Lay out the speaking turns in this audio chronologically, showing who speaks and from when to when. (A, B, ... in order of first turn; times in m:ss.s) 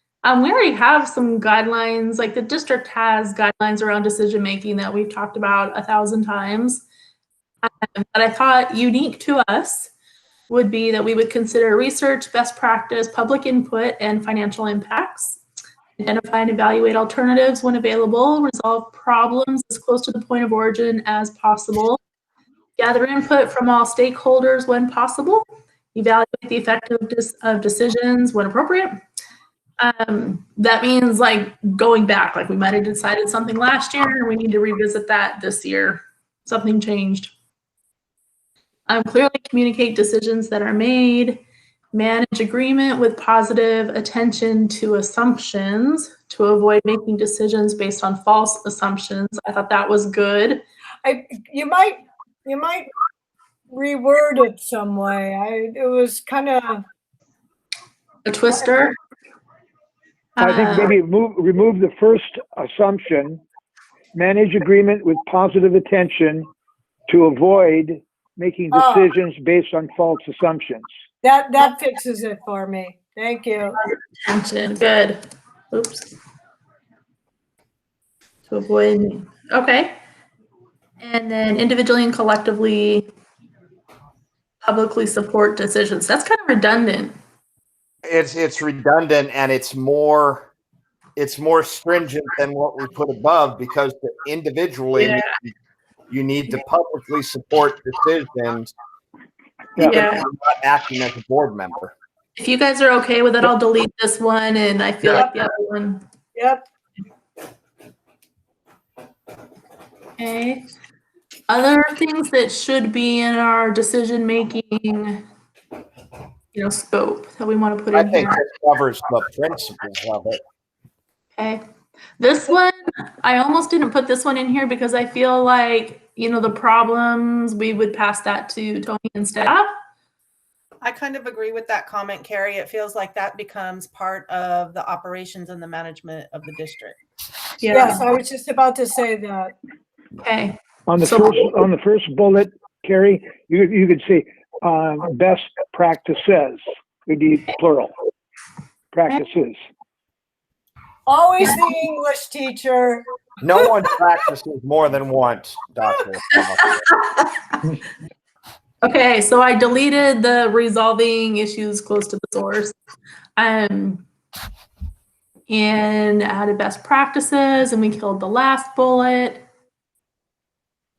0:00.2-0:06.8 A
0:07.6-0:09.9 A
0:10.5-0:15.4 A
0:16.0-0:22.0 A
0:22.8-0:29.0 A
0:29.8-0:37.3 A
0:38.9-0:41.4 A
0:41.9-0:50.6 A
0:51.0-0:52.9 B
0:53.7-0:56.8 B
0:58.3-0:59.0 A
1:00.4-1:01.0 A
1:00.4-1:03.4 C
1:04.2-1:06.5 C
1:07.1-1:10.9 C
1:08.7-1:09.1 B
1:11.2-1:13.8 B
1:13.8-1:15.2 A
1:15.7-1:16.1 A
1:18.5-1:20.0 A
1:21.0-1:23.1 A
1:24.6-1:27.1 A
1:28.0-1:30.5 D
1:31.2-1:35.5 D
1:34.9-1:35.3 A
1:36.1-1:38.7 D
1:39.8-1:40.3 A
1:40.2-1:41.9 D
1:42.4-1:46.0 A
1:46.4-1:46.6 B
1:50.2-1:50.6 A
1:51.5-1:55.2 A
1:56.5-1:58.4 A
1:58.0-2:00.4 D
2:01.4-2:01.6 A
2:02.2-2:09.7 A
2:10.8-2:17.0 E
2:17.6-2:18.0 A
2:17.7-2:19.5 B
2:20.2-2:21.5 A
2:20.9-2:27.9 C
2:28.9-2:29.6 C
2:31.1-2:33.0 B
2:33.4-2:36.7 D
2:36.9-2:37.3 A
2:38.8-2:42.7 A
2:43.4-2:44.0 A
2:45.5-2:49.5 A